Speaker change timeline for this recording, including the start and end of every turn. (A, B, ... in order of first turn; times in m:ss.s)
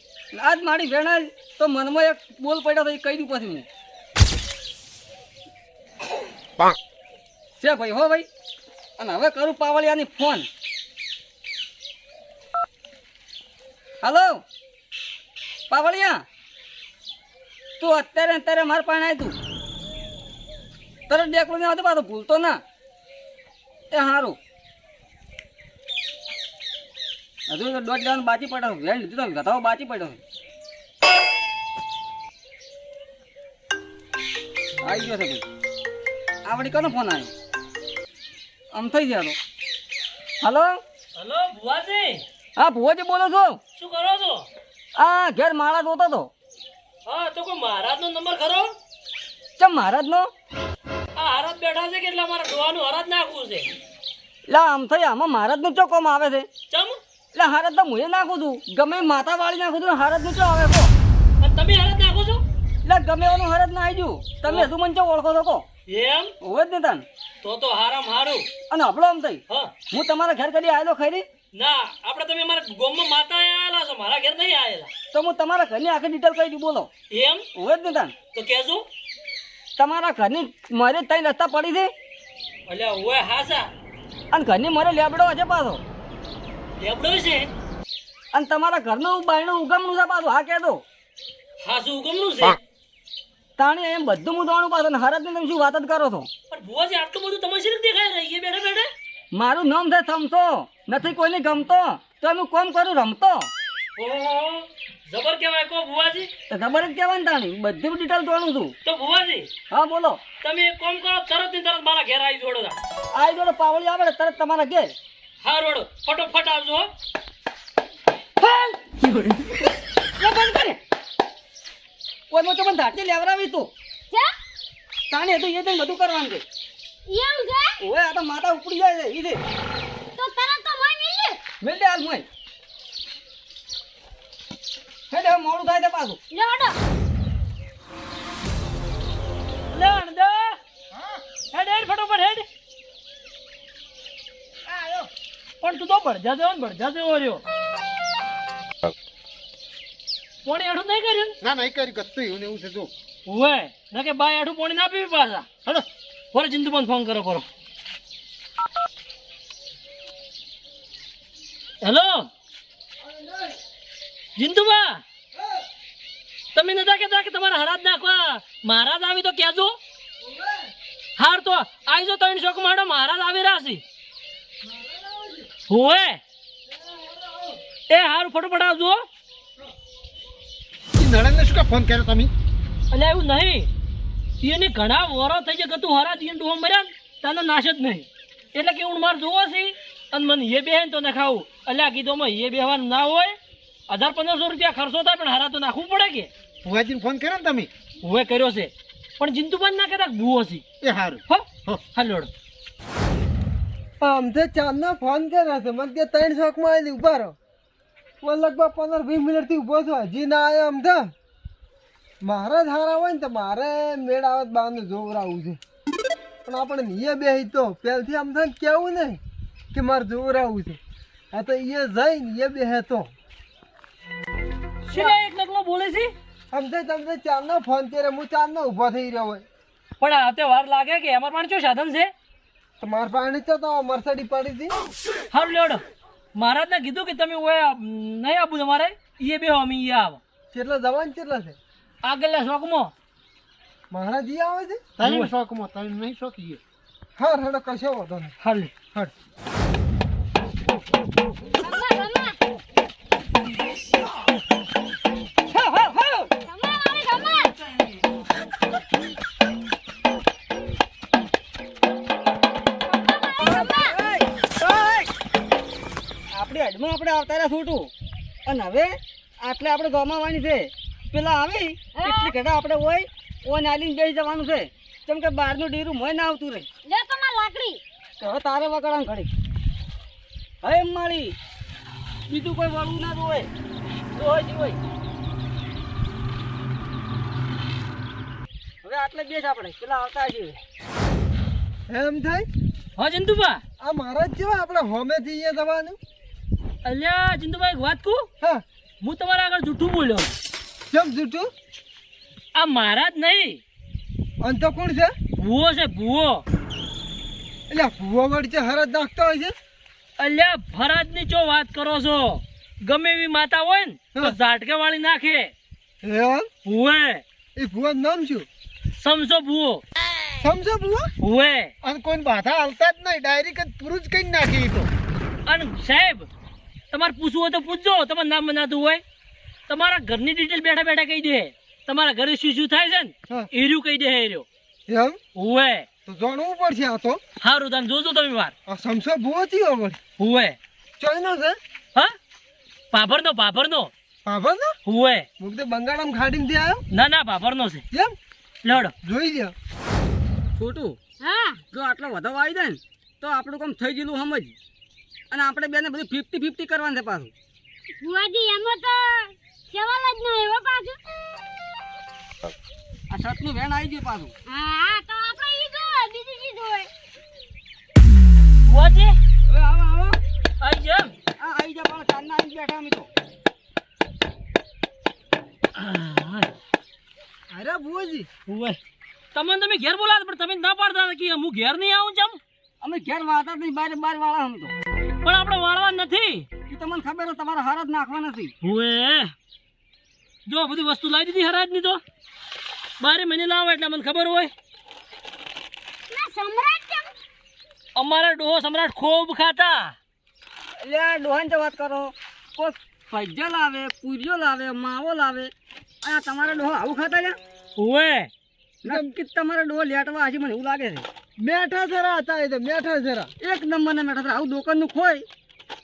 0:00.3-0:03.7 A
0:07.6-0:08.3 A
0:09.0-0:10.5 A
0:14.0-0:14.4 A
0:15.7-0:16.2 A
0:17.8-0:19.3 A
0:21.1-0:22.6 A
0:23.9-0:24.4 A
0:27.5-0:30.2 A
0:34.8-0:35.4 A
0:36.5-0:37.3 A
0:38.7-0:39.4 A
0:40.4-0:40.7 A
0:41.2-0:42.2 B
0:42.6-0:43.6 A
0:43.8-0:44.5 B
0:45.0-0:46.3 A
0:47.1-0:48.7 B
0:49.6-0:50.3 A
0:51.2-0:53.7 B
0:54.5-0:56.5 A
0:56.7-0:57.0 B
0:57.4-1:00.9 A
1:01.4-1:02.4 B
1:02.8-1:05.6 A
1:05.9-1:06.3 B
1:06.4-1:07.0 A
1:07.4-1:08.5 B
1:08.7-1:11.2 A
1:11.5-1:14.9 B
1:15.1-1:16.9 A
1:17.1-1:17.4 B
1:17.6-1:18.2 A
1:18.4-1:18.8 B
1:19.8-1:21.9 A
1:22.7-1:23.7 B
1:24.3-1:25.8 A
1:26.8-1:27.5 B
1:28.3-1:30.8 A
1:31.6-1:32.6 B
1:33.6-1:36.3 A
1:36.5-1:38.9 B
1:39.3-1:43.5 A
1:44.0-1:46.3 B
1:46.5-1:48.7 A
1:48.8-1:49.5 B
1:49.7-1:50.2 A
1:50.4-1:52.8 B
1:53.2-1:54.9 A
1:55.4-1:56.9 B
1:58.4-1:58.8 A
2:00.2-2:00.8 A
2:02.3-2:03.7 A
2:05.1-2:06.4 A
2:07.1-2:07.7 C
2:07.8-2:09.4 A
2:10.2-2:11.4 C
2:11.6-2:12.3 A
2:15.1-2:16.2 A
2:16.3-2:16.8 C
2:19.7-2:20.6 B
2:21.5-2:22.5 B
2:25.6-2:27.4 B
2:30.4-2:31.4 B
2:31.4-2:32.9 D
2:33.3-2:35.5 B
2:36.3-2:37.5 B
2:41.8-2:42.3 B
2:43.0-2:43.6 E
2:44.4-2:45.0 B
2:46.6-2:49.8 B
2:50.2-2:50.7 E
2:51.2-2:53.8 B
2:54.6-2:55.5 E
2:55.7-2:56.2 B
2:56.7-2:57.6 E
2:57.9-2:59.0 B
3:01.0-3:02.3 D
3:02.9-3:03.7 B
3:04.4-3:13.4 B
3:13.9-3:16.3 B
3:16.6-3:17.7 D
3:18.0-3:20.6 B
3:20.8-3:21.8 D
3:21.3-3:22.3 B
3:24.0-3:27.4 E
3:28.2-3:31.1 E
3:32.2-3:35.6 E
3:36.4-3:39.2 E
3:39.7-3:40.8 E
3:41.3-3:43.1 E
3:44.9-3:46.1 B
3:46.5-3:49.4 E
3:50.0-3:52.1 B
3:52.8-3:54.8 E
3:55.3-3:55.8 B
3:56.4-4:00.2 B
4:00.5-4:01.6 E
4:02.0-4:02.9 B
4:03.9-4:04.9 E
4:05.0-4:06.6 D
4:05.0-4:05.3 B
4:07.2-4:08.3 E
4:08.4-4:08.7 B
4:11.6-4:12.4 C
4:15.5-4:16.3 A
4:16.4-4:17.5 C
4:22.8-4:23.9 C
4:23.4-4:25.1 A
4:26.3-4:27.9 A
4:28.5-4:36.7 A
4:36.9-4:37.8 C
4:38.2-4:39.3 A
4:40.6-4:41.4 A
4:42.3-4:43.5 A
4:44.1-4:44.8 A
4:48.8-4:50.6 A
4:51.9-4:52.5 E
4:53.0-4:53.6 B
4:53.8-4:56.0 E
4:56.8-4:58.3 B
4:59.0-5:00.4 B
5:00.9-5:01.5 E
5:02.6-5:03.6 B
5:04.4-5:05.1 E
5:05.4-5:06.4 B
5:07.7-5:09.5 E
5:10.2-5:15.5 B
5:16.0-5:16.5 E
5:16.6-5:17.2 B
5:17.6-5:18.5 E
5:19.0-5:19.8 B
5:20.4-5:21.1 E
5:21.2-5:21.7 B
5:21.8-5:24.9 D
5:25.5-5:26.3 B
5:26.9-5:29.0 B
5:29.7-5:34.5 B
5:34.9-5:35.2 E
5:35.4-5:35.9 B
5:36.1-5:37.2 E
5:37.4-5:38.5 B
5:38.7-5:40.0 E
5:40.2-5:40.6 B
5:41.0-5:41.6 E
5:42.9-5:43.9 B
5:44.2-5:44.8 E
5:44.9-5:45.3 B
5:45.4-5:46.8 E
5:46.9-5:47.8 B
5:48.6-5:48.9 B
5:49.0-5:49.5 E
5:50.6-5:51.0 A
5:51.2-5:51.6 C
5:51.7-5:54.6 A
5:55.3-5:57.3 A
5:58.0-6:01.0 C
6:03.1-6:04.3 A
6:04.5-6:06.9 C
6:08.7-6:09.2 B
6:09.5-6:10.2 A
6:10.6-6:11.1 B
6:11.4-6:13.1 A
6:15.8-6:16.5 B
6:17.5-6:18.3 E
6:18.5-6:18.8 B
6:19.3-6:22.4 B
6:22.8-6:24.7 A
6:25.2-6:26.5 B
6:26.7-6:28.5 A
6:28.6-6:29.3 B
6:30.5-6:32.0 B
6:33.0-6:34.5 B
6:36.1-6:37.1 C
6:38.0-6:40.0 B
6:40.8-6:45.5 A
6:46.0-6:47.4 A
6:47.8-6:48.3 B
6:48.8-6:51.1 A
6:48.9-6:49.1 E
6:51.4-6:53.3 E
6:53.4-6:55.2 A